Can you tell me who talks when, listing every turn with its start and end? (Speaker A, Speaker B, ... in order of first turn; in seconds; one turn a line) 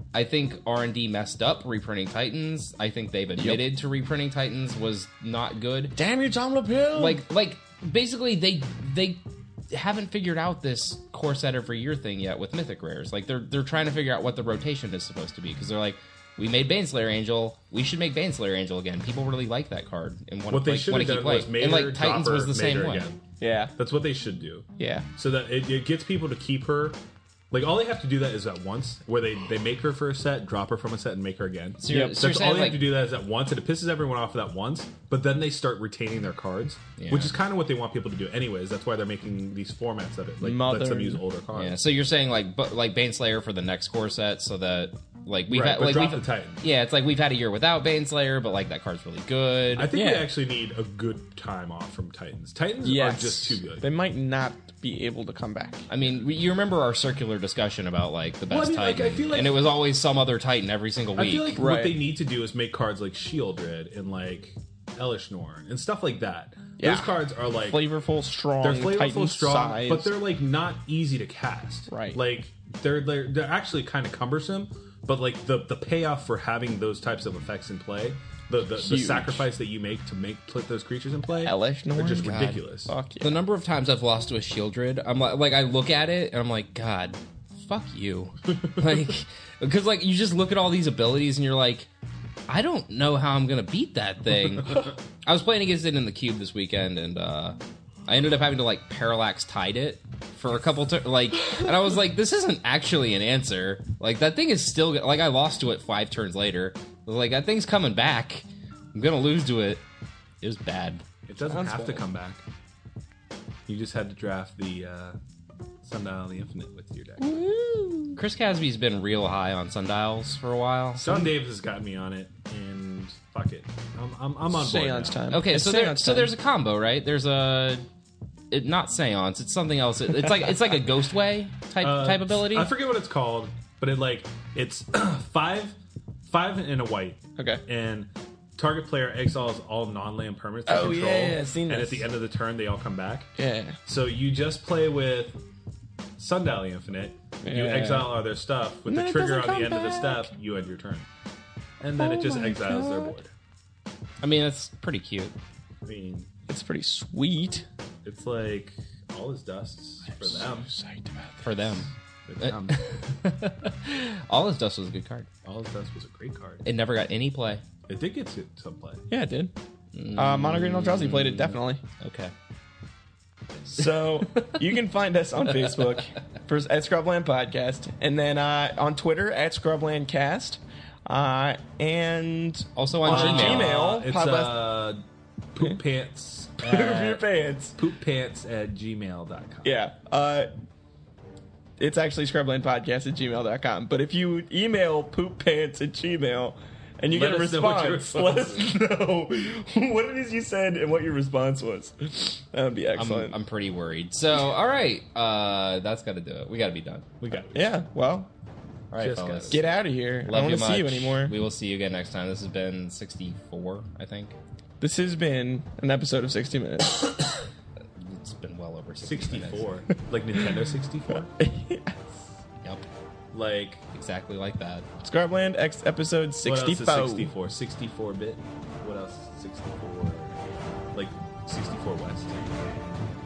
Speaker A: 0.1-5.9
Speaker B: 3.4-3.6
Speaker B: 5.9-7.2
Speaker A: 6.9-23.1
Speaker C: 20.5-23.2
Speaker B: 23.4-23.7
Speaker C: 23.8-27.0
Speaker B: 24.8-25.1
Speaker C: 27.5-41.8
Speaker A: 31.8-32.8
Speaker B: 31.9-32.2
Speaker A: 37.0-37.3
Speaker B: 40.4-41.2
Speaker A: 41.5-49.9
Speaker C: 45.5-46.6
Speaker C: 49.7-53.8
Speaker B: 49.9-50.3
Speaker B: 52.8-55.9
Speaker A: 55.9-61.6
Speaker C: 58.5-59.6
Speaker C: 61.1-67.9
Speaker B: 61.5-62.0
Speaker B: 66.8-70.1
Speaker C: 68.6-82.9
Speaker B: 71.9-72.2
Speaker B: 78.8-79.5
Speaker B: 81.3-83.4
Speaker A: 82.3-82.6
Speaker A: 83.2-91.9
Speaker A: 92.5-109.8
Speaker A: 110.4-111.0
Speaker C: 111.3-112.4
Speaker B: 111.4-112.0
Speaker C: 113.7-115.2
Speaker C: 115.8-117.4
Speaker B: 117.2-118.2
Speaker A: 118.2-121.3
Speaker C: 121.0-125.3
Speaker B: 124.5-126.3
Speaker A: 125.3-127.8
Speaker A: 128.5-132.7
Speaker C: 131.8-143.3
Speaker B: 137.4-137.6
Speaker B: 140.7-142.1
Speaker B: 143.4-143.8
Speaker C: 143.8-145.4
Speaker C: 146.2-151.1
Speaker B: 147.4-148.2
Speaker B: 148.9-150.3
Speaker C: 151.8-153.3
Speaker B: 152.0-153.1
Speaker A: 154.2-155.3
Speaker C: 155.8-156.3
Speaker B: 156.5-157.7
Speaker C: 158.0-160.7
Speaker B: 160.1-161.8
Speaker A: 161.4-161.9
Speaker C: 162.2-163.0
Speaker A: 162.4-165.3
Speaker C: 165.4-166.7
Speaker A: 166.6-167.6
Speaker C: 167.9-169.1
Speaker B: 169.1-169.5
Speaker A: 169.9-172.3
Speaker B: 170.1-171.8
Speaker A: 173.7-174.6
Speaker B: 173.7-184.8
Speaker A: 182.8-183.7
Speaker C: 183.1-189.8
Speaker B: 186.6-187.8
Speaker B: 189.6-190.5
Speaker B: 191.8-203.4
Speaker C: 197.1-198.8
Speaker A: 202.9-207.1
Speaker C: 207.2-207.8
Speaker B: 207.5-208.3
Speaker A: 208.9-209.7
Speaker C: 208.9-209.7
Speaker B: 209.5-211.4
Speaker A: 210.2-214.3
Speaker B: 214.8-217.3
Speaker A: 218.0-219.7
Speaker C: 219.0-221.3
Speaker B: 221.4-222.3
Speaker C: 223.3-223.8
Speaker A: 223.9-224.8
Speaker B: 225.0-227.3
Speaker C: 226.4-230.4
Speaker C: 230.9-232.6